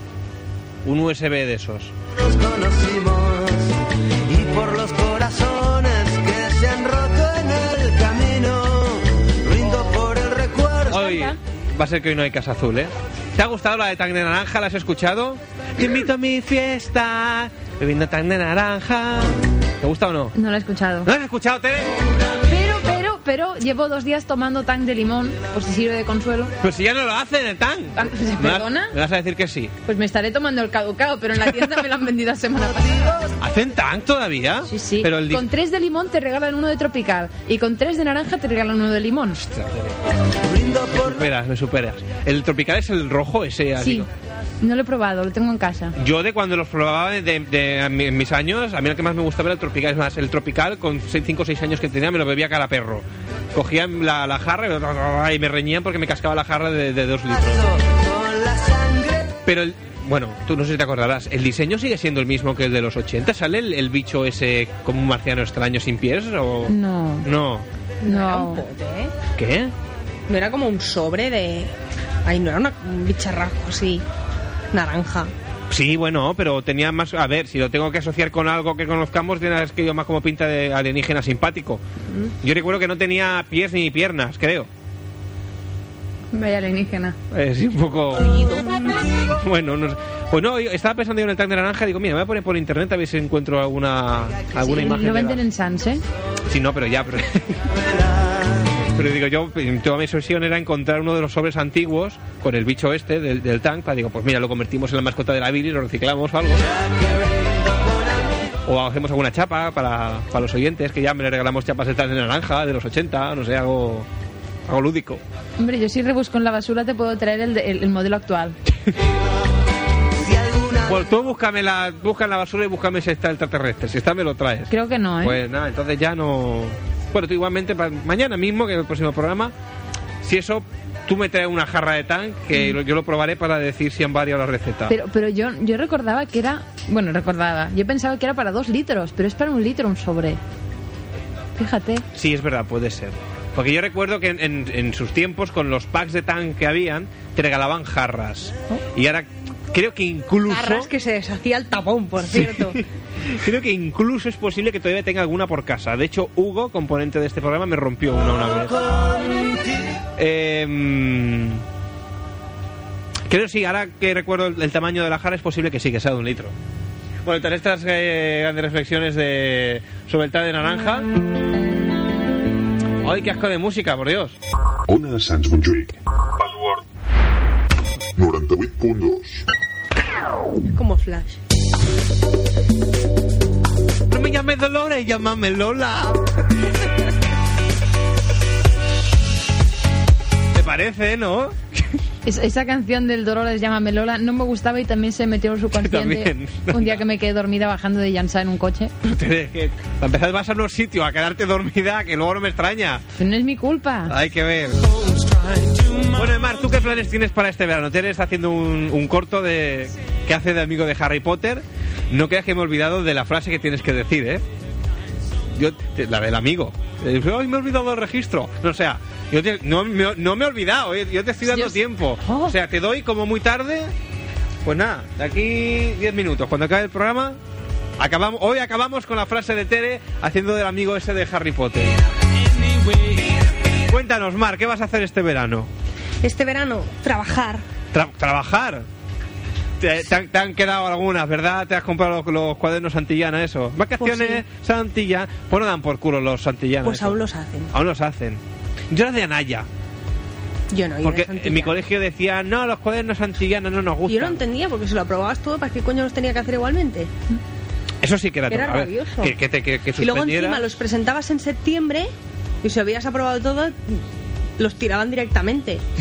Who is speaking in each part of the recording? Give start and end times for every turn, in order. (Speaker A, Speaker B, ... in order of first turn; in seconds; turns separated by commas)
Speaker A: 0.8-1.9, Speaker B: 2.2-3.7, Speaker B: 4.3-11.0, Speaker A: 10.9-20.4, Speaker C: 10.9-11.4, Speaker C: 20.4-21.1, Speaker A: 21.1-21.9, Speaker C: 22.5-26.5, Speaker A: 26.6-29.7, Speaker C: 28.0-28.9, Speaker C: 29.9-33.2, Speaker A: 33.4-35.5, Speaker C: 34.7-39.4, Speaker A: 39.4-40.0, Speaker B: 40.5-41.1, Speaker A: 41.0-44.1, Speaker C: 43.8-44.1, Speaker C: 44.6-46.0, Speaker A: 46.0-57.7, Speaker B: 57.5-59.3, Speaker A: 59.5-67.7, Speaker C: 66.7-67.3, Speaker D: 68.0-69.1, Speaker C: 68.0-68.6, Speaker A: 69.4-69.7, Speaker D: 70.3-71.7, Speaker D: 72.2-74.0, Speaker D: 74.7-75.3, Speaker A: 75.7-81.8, Speaker A: 82.4-84.7, Speaker C: 86.3-87.2, Speaker A: 87.3-88.6, Speaker A: 89.3-95.4, Speaker C: 94.6-96.0, Speaker A: 96.5-97.6, Speaker A: 98.9-106.6, Speaker A: 108.7-114.1, Speaker A: 114.7-115.2, Speaker C: 115.6-118.6, Speaker B: 120.2-120.9, Speaker A: 120.8-129.5, Speaker C: 124.7-125.4, Speaker A: 130.2-134.9, Speaker C: 134.9-140.4, Speaker C: 141.6-142.1, Speaker A: 142.1-150.9, Speaker D: 150.5-152.8, Speaker A: 152.3-158.8, Speaker A: 160.2-161.6, Speaker A: 163.3-166.6, Speaker A: 167.2-171.1, Speaker A: 173.0-174.4, Speaker E: 174.9-176.8, Speaker E: 178.2-179.4, Speaker D: 180.7-181.4, Speaker A: 184.1-186.2, Speaker A: 190.5-191.9, Speaker C: 192.2-198.9, Speaker A: 195.8-197.0, Speaker A: 199.0-203.0, Speaker C: 203.2-204.2, Speaker A: 204.1-204.8, Speaker A: 206.1-214.4, Speaker A: 215.5-223.9, Speaker C: 221.5-222.5, Speaker A: 224.6-227.4, Speaker A: 228.0-232.0, Speaker A: 233.9-235.7, Speaker D: 236.2-237.6, Speaker A: 237.9-238.9, Speaker A: 239.8-247.2, Speaker D: 244.0-244.4, Speaker D: 246.8-247.7, Speaker A: 247.7-249.7, Speaker D: 250.7-251.8, Speaker A: 251.0-254.4, Speaker D: 254.1-257.1, Speaker A: 258.0-260.7, Speaker D: 258.5-259.4, Speaker D: 260.0-262.1, Speaker D: 262.6-264.0, Speaker D: 264.6-265.8